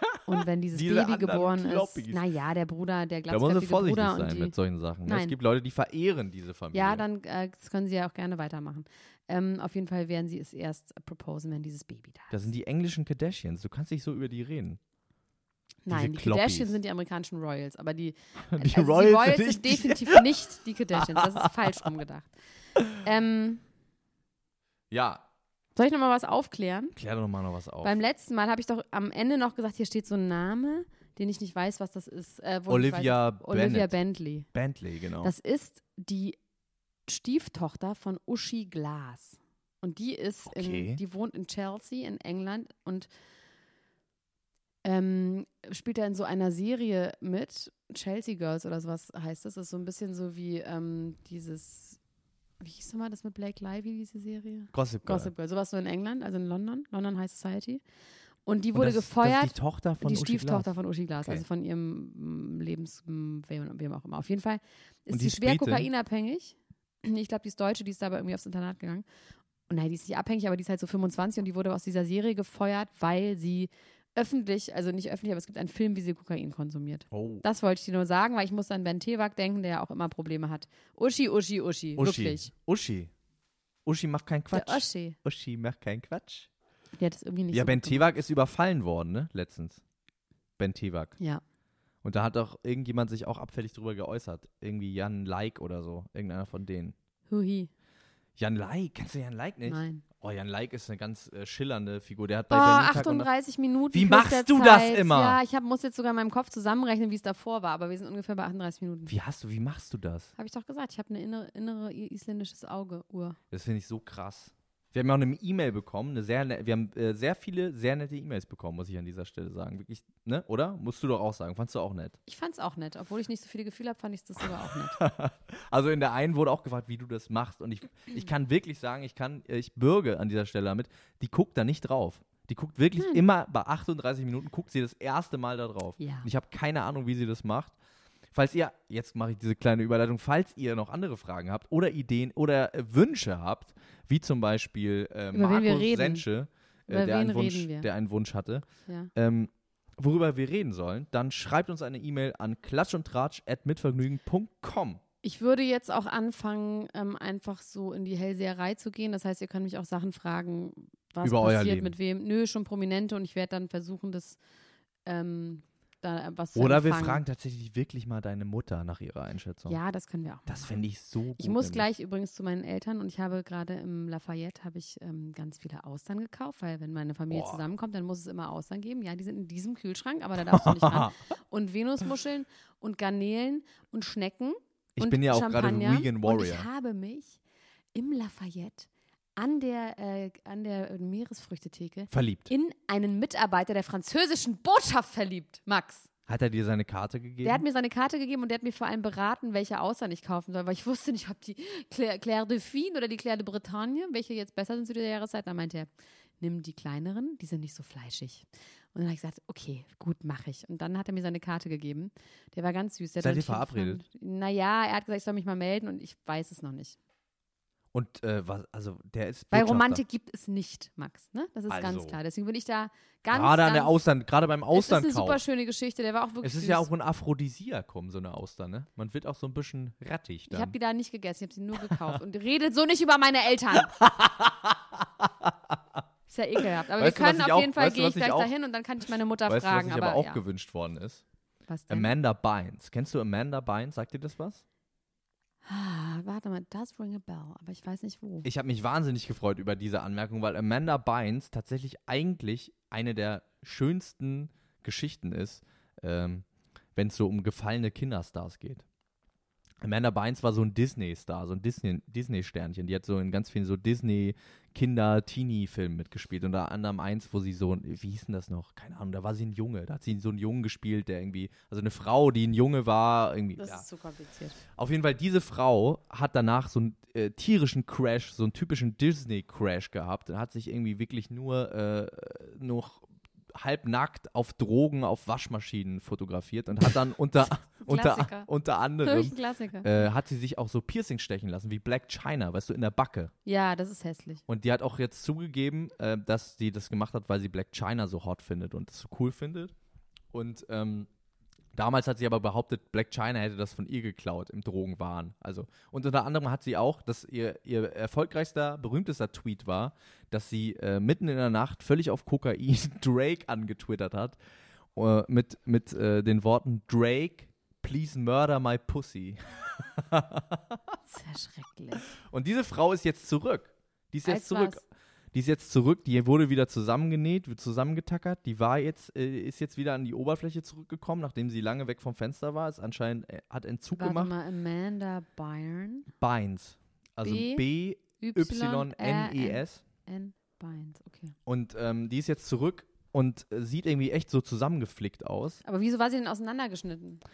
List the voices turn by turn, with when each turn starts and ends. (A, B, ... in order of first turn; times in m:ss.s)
0:00.2-0:05.4 A
0:00.7-0:02.2 B
0:03.3-0:07.0 B
0:06.7-0:12.4 A
0:12.3-0:14.8 B
0:15.8-0:22.3 A
0:15.9-0:16.8 B
0:18.5-0:20.2 B
0:21.0-0:21.5 B
0:23.0-0:23.6 A
0:24.9-0:25.2 B
0:25.8-0:26.9 A
0:26.9-0:28.0 B
0:27.8-0:34.5 A
0:32.7-0:33.9 B
0:34.5-0:35.3 B
0:35.2-0:36.4 A
0:37.1-0:43.1 A
0:40.5-0:41.0 B
0:44.8-0:52.0 A
0:52.6-0:57.8 A
0:54.7-0:55.3 B
0:58.4-1:09.0 A
0:58.7-1:00.7 B
1:05.1-1:05.9 B
1:09.7-1:22.5 A
1:17.1-1:17.4 B
1:22.0-1:23.1 B
1:23.8-1:26.5 B
1:24.5-1:25.2 A
1:27.0-1:28.1 A
1:27.5-1:29.8 B
1:30.6-1:31.2 B
1:32.0-1:36.9 B
1:37.3-1:37.7 A
1:38.4-1:43.3 B
1:39.6-1:40.0 A
1:42.5-1:49.1 A
1:43.9-1:45.4 B
1:49.1-1:50.3 B
1:50.4-1:53.4 A
1:53.5-2:02.2 B
2:02.3-2:05.0 A
2:05.0-2:17.7 B
2:16.0-2:16.3 A
2:18.3-2:35.0 B
2:25.3-2:26.2 A
2:26.9-2:27.9 A
2:35.2-2:44.4 A
2:41.2-2:41.9 B
2:45.0-2:47.2 A
2:46.5-2:49.8 B
2:49.7-2:50.8 A
2:50.5-2:51.8 B
2:51.4-3:07.4 A
2:57.3-2:57.6 B
3:00.5-3:01.1 B
3:05.0-3:06.7 B
3:07.9-3:16.1 A
3:12.1-3:12.5 B
3:16.3-3:17.6 B
3:17.4-3:37.0 A
3:33.2-3:34.0 B
3:37.9-3:40.0 B
3:39.5-3:44.0 A
3:41.7-3:42.2 B
3:43.3-3:45.4 B
3:44.7-3:46.9 A
3:46.4-3:50.8 B
3:50.5-3:53.9 A
3:51.8-3:52.2 B
3:53.9-3:55.8 B
3:56.3-4:00.4 A
3:57.0-3:58.5 B
3:59.5-4:01.2 B
4:01.7-4:02.1 A
4:01.9-4:04.6 B
4:05.6-4:08.5 A
4:08.4-4:18.8 B
4:19.8-4:33.8 B
4:33.6-4:34.6 A
4:34.8-4:53.3 B
4:47.8-4:48.5 A
4:49.0-4:49.9 A
4:53.4-4:54.4 A
4:54.5-4:59.7 B
5:00.3-5:01.1 B
5:01.7-5:14.4 B
5:14.9-5:21.0 B
5:21.1-5:22.1 A
5:22.1-5:34.3 B
5:24.2-5:24.8 A
5:34.0-5:36.1 A
5:36.2-5:39.8 B
5:37.2-5:41.4 A
5:41.4-5:45.6 B
5:45.6-5:47.2 A